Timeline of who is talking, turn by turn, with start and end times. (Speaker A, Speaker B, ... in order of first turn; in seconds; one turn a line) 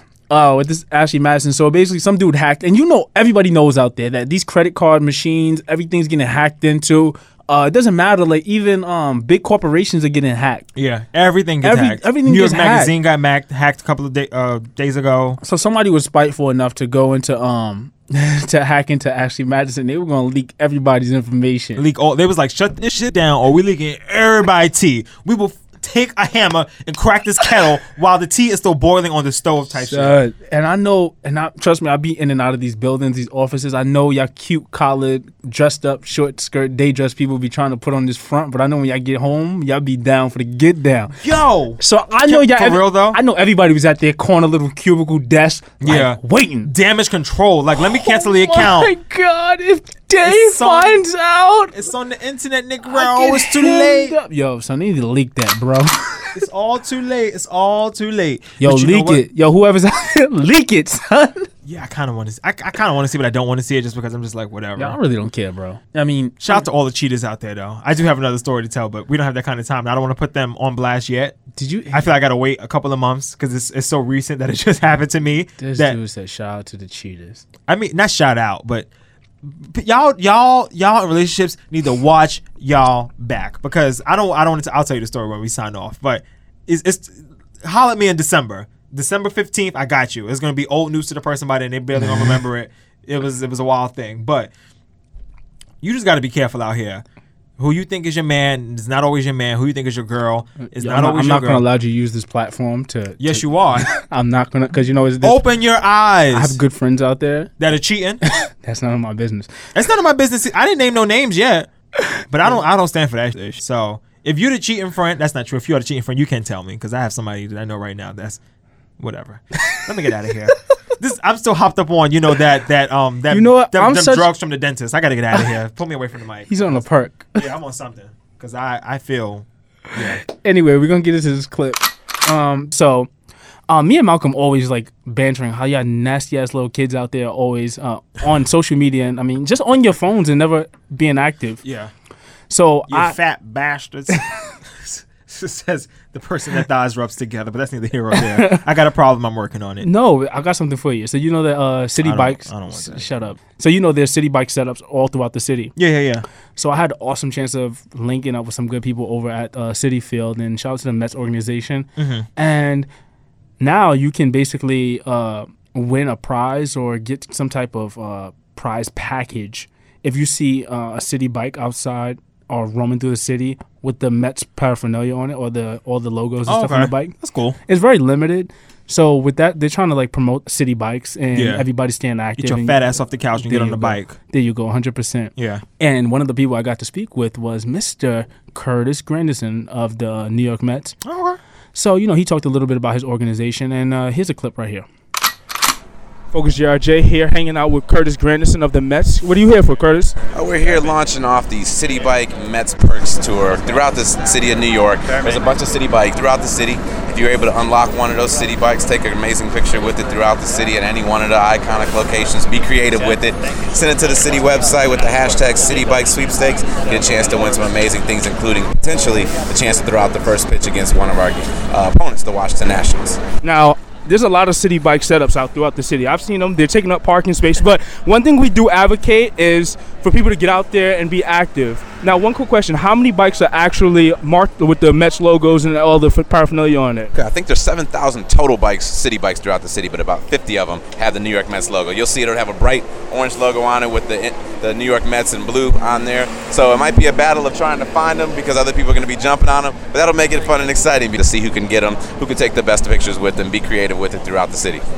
Speaker A: 0.3-10.7
Speaker B: 10.8-15.4
Speaker A: 11.6-12.9
Speaker A: 15.4-21.8
Speaker B: 21.8-30.2
Speaker A: 29.7-41.2
Speaker B: 41.2-43.2
Speaker A: 41.8-46.7
Speaker B: 45.8-48.9
Speaker A: 47.9-51.8
Speaker B: 50.2-51.0
Speaker B: 51.7-54.1
Speaker A: 52.8-56.3
Speaker B: 56.3-59.2
Speaker A: 58.6-61.5
Speaker B: 61.6-65.0
Speaker A: 64.8-66.6
Speaker B: 66.4-71.4
Speaker A: 71.5-72.1
Speaker B: 71.9-76.0
Speaker A: 75.6-77.4
Speaker B: 77.7-78.9
Speaker B: 79.4-94.5
Speaker B: 95.8-97.0
Speaker B: 97.6-101.7
Speaker A: 100.6-105.4
Speaker B: 103.2-103.9
Speaker B: 105.2-106.6
Speaker A: 106.3-107.5
Speaker B: 107.6-108.2
Speaker A: 108.3-109.5
Speaker B: 109.7-111.7
Speaker B: 112.3-118.4
Speaker B: 119.0-130.2
Speaker A: 123.3-124.3
Speaker A: 126.5-127.4
Speaker A: 130.2-133.1
Speaker A: 133.7-141.6
Speaker B: 141.6-141.9
Speaker A: 142.5-143.2
Speaker B: 142.9-149.9
Speaker A: 148.1-148.6
Speaker A: 149.8-155.7
Speaker B: 152.0-153.3
Speaker B: 155.8-156.2
Speaker A: 156.6-162.9
Speaker B: 162.0-162.3
Speaker A: 163.6-177.1
Speaker B: 176.4-177.6
Speaker A: 177.7-182.9
Speaker B: 181.3-181.7
Speaker B: 182.4-184.2
Speaker A: 183.4-191.0
Speaker B: 185.4-185.6
Speaker B: 191.0-191.4
Speaker A: 191.7-194.9
Speaker A: 196.3-200.2
Speaker C: 200.3-223.2
Speaker A: 223.4-237.1
Speaker C: 237.1-254.8